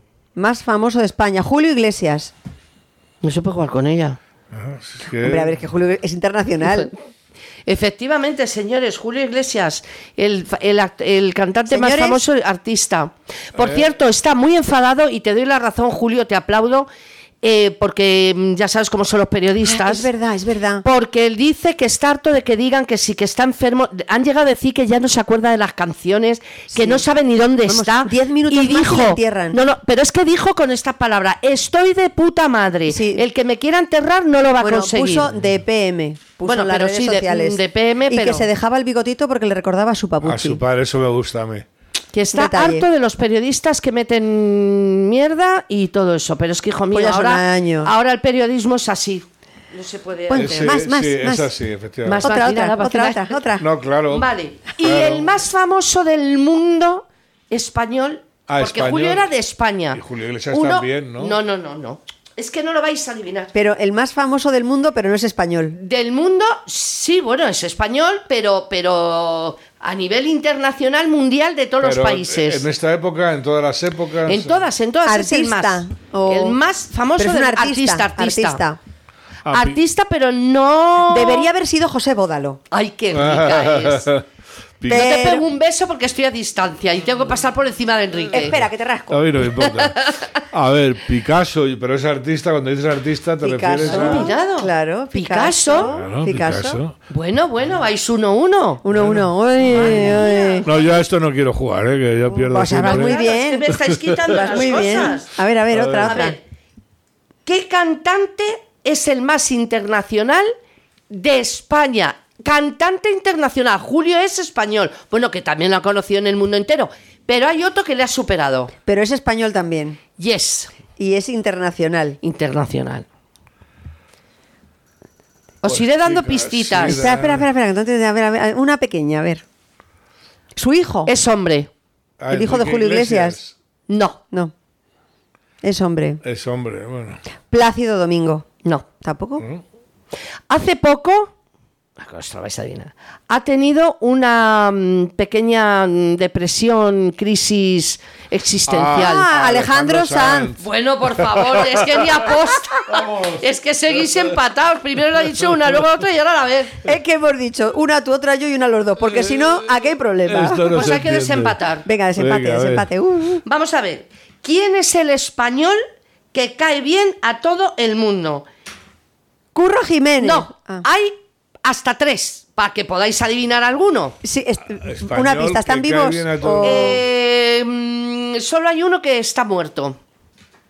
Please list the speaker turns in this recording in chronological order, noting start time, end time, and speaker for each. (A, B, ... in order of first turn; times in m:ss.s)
0:00.4-0:02.3 A
0:03.2-0:04.2 B
0:04.5-0:05.6 C
0:05.2-0:06.9 A
0:07.6-0:16.9 B
0:11.7-0:12.2 A
0:13.6-0:13.8 C
0:17.4-0:20.1 B
0:19.6-0:20.8 A
0:20.8-0:35.3 B
0:26.7-0:27.0 A
0:27.7-0:29.6 A
0:32.9-0:33.2 A
0:34.6-0:40.6 A
0:36.4-0:38.5 B
0:40.2-0:41.7 C
0:42.1-0:50.8 B
0:42.3-0:42.8 A
0:46.9-0:47.9 A
0:50.3-0:51.5 A
0:50.3-0:52.3 C
0:52.0-0:53.4 B
0:52.2-0:53.7 A
0:53.6-0:55.3 C
0:54.1-1:03.5 B
0:58.5-0:59.3 C
0:59.9-1:01.4 C
1:03.5-1:05.8 A
1:05.8-1:12.6 B
1:11.8-1:14.7 C
1:14.3-1:18.6 B
1:15.0-1:16.6 A
1:17.2-1:18.8 A
1:19.4-1:19.8 C
1:19.5-1:21.5 B
1:21.1-1:22.6 A
1:22.7-1:24.1 B
1:23.1-1:24.2 C
1:24.8-1:25.3 C
1:24.9-1:28.6 B
1:24.9-1:25.4 A
1:28.3-1:29.3 A
1:29.1-1:34.3 C
1:29.6-1:30.4 B
1:33.4-1:36.8 A
1:33.8-1:35.9 B
1:35.8-1:37.0 C
1:37.1-1:38.8 B
1:38.8-1:40.7 A
1:38.9-1:44.9 C
1:39.6-1:40.7 B
1:42.4-1:43.7 A
1:42.6-1:45.4 B
1:44.2-1:46.4 A
1:45.7-1:46.2 C
1:46.0-1:46.4 B
1:47.4-1:50.5 B
1:51.1-1:58.7 B
1:58.8-2:00.0 A
2:00.2-2:00.7 B
2:01.0-2:02.2 A
2:02.2-2:03.0 B
2:05.6-2:07.0 B
2:05.6-2:07.5 C
2:06.8-2:09.4 A
2:10.5-2:11.1 A
2:11.0-2:11.7 B
2:12.2-2:13.5 C
2:12.3-2:13.4 A
2:13.9-2:14.2 B
2:15.6-2:16.2 A
2:16.2-2:17.2 C
2:17.5-2:18.5 A
2:19.0-2:19.4 A
2:20.5-2:21.3 B
2:22.0-2:29.3 B
2:28.7-2:32.4 C
2:28.9-2:30.5 A
2:30.6-2:36.8 B
2:32.9-2:33.4 C
2:36.8-2:40.9 A
2:39.1-2:39.5 C
2:40.3-2:41.6 C
2:40.7-2:41.8 B
2:41.8-2:43.4 A
2:42.2-2:42.9 C
2:43.4-2:45.8 B
2:46.3-2:48.4 B
2:49.5-2:50.8 A
2:50.2-2:54.1 B
2:54.2-2:57.0 A
2:54.7-2:57.0 C
2:56.6-3:00.0 B